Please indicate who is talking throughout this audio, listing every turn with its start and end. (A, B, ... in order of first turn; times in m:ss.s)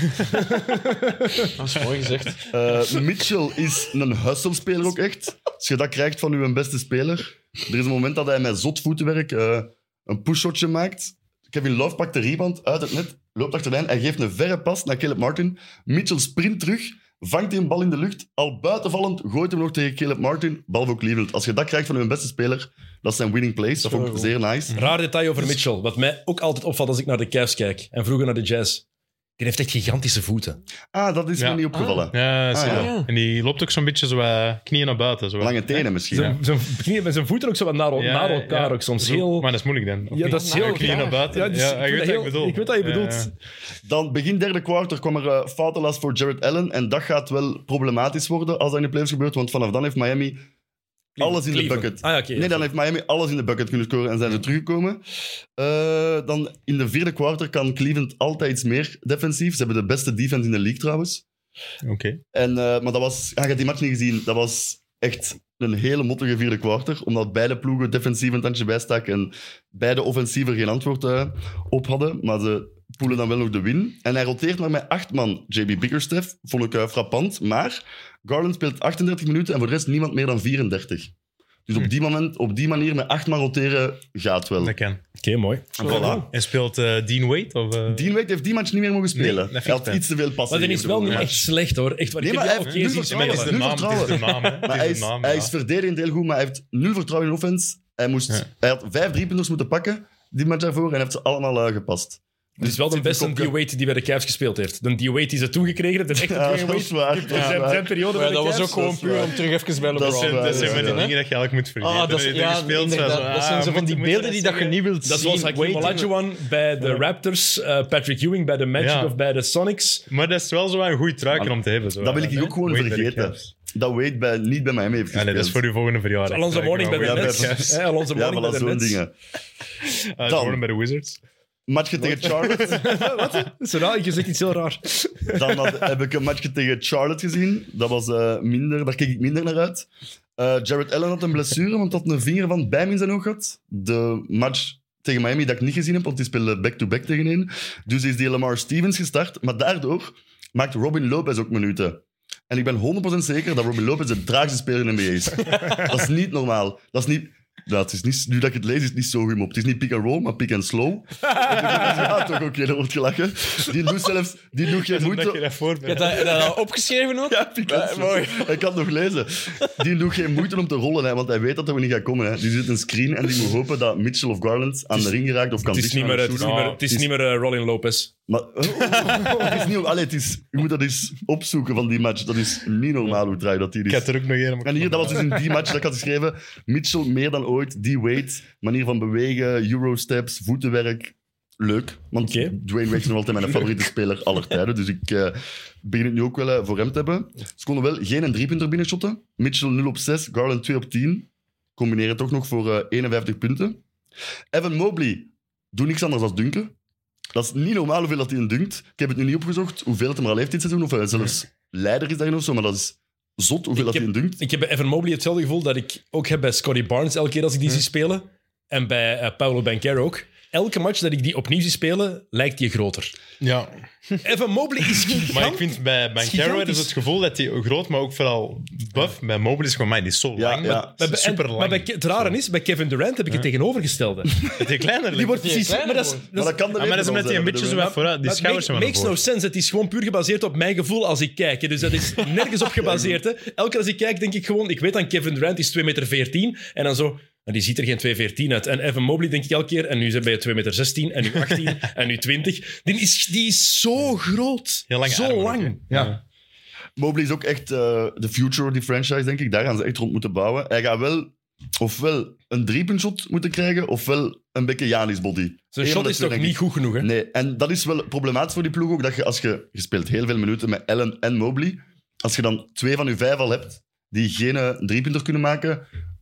0:00.2-0:01.5 A
0:01.6-0:02.5 B
0:02.5-0:24.8 C
0:23.8-0:24.3 B
0:24.7-0:28.8 A
0:29.4-0:30.6 A
0:30.9-0:32.9 C
0:31.4-0:35.6 D
0:31.7-0:32.0 B
0:32.6-0:33.1 B
0:35.4-0:36.4 C
0:36.1-0:36.4 D
0:36.1-0:39.5 A
0:38.0-0:43.3 D
0:40.1-0:43.3 A
0:40.2-0:41.4 B
0:43.8-0:50.4 C
0:51.2-0:52.6 A
0:51.2-0:55.0 C
0:55.6-1:01.2 C
1:01.8-1:02.2 D
1:02.3-1:21.1 C
1:21.7-1:24.7 C
1:24.6-1:25.0 D
1:25.2-1:26.3 A
1:25.7-1:26.3 C
1:25.8-1:26.2 B
1:26.0-1:28.1 D
1:27.9-1:31.5 C
1:29.1-1:30.0 D
1:30.5-1:34.1 A
1:31.1-1:31.4 D
1:32.2-1:43.5 C
1:32.6-1:35.5 D
1:42.6-1:49.1 A
1:46.2-1:48.1 C
1:47.3-1:47.6 D
1:48.1-1:51.2 B
1:48.7-1:51.1 C
1:50.0-1:54.8 D
1:51.8-1:56.1 B
1:55.0-2:00.0 A
1:58.8-1:59.2 D
2:00.1-2:03.5 D
2:01.3-2:05.6 C
2:05.1-2:07.8 D
2:06.3-2:09.0 A
2:07.0-2:09.1 C
2:09.8-2:11.2 D
2:10.2-2:10.6 C
2:11.7-2:13.1 C
2:12.2-2:12.6 D
2:12.2-2:15.8 A
2:15.3-2:45.4 C
2:44.8-2:46.5 D
2:45.8-2:48.7 B
2:47.3-2:57.1 C
2:55.7-2:58.1 A
2:56.4-2:56.8 D
2:58.3-3:04.1 C
2:58.8-2:59.6 D
3:03.9-3:05.4 D
3:04.6-3:23.8 C
3:12.2-3:12.6 A
3:24.5-3:26.7 C
3:27.3-3:34.4 C
3:33.8-3:43.1 A
3:43.4-3:43.8 D
3:44.2-3:46.9 A
3:45.3-3:52.4 D
3:50.3-3:50.9 C
3:51.0-3:54.4 A
3:54.4-3:55.6 D
3:55.1-3:56.6 A
3:55.3-3:56.2 B
3:56.3-3:58.0 C
3:56.7-3:59.2 D
3:57.7-4:16.2 A
4:02.7-4:03.2 C
4:14.9-4:16.2 D
4:17.0-4:35.8 C
4:25.7-4:27.1 A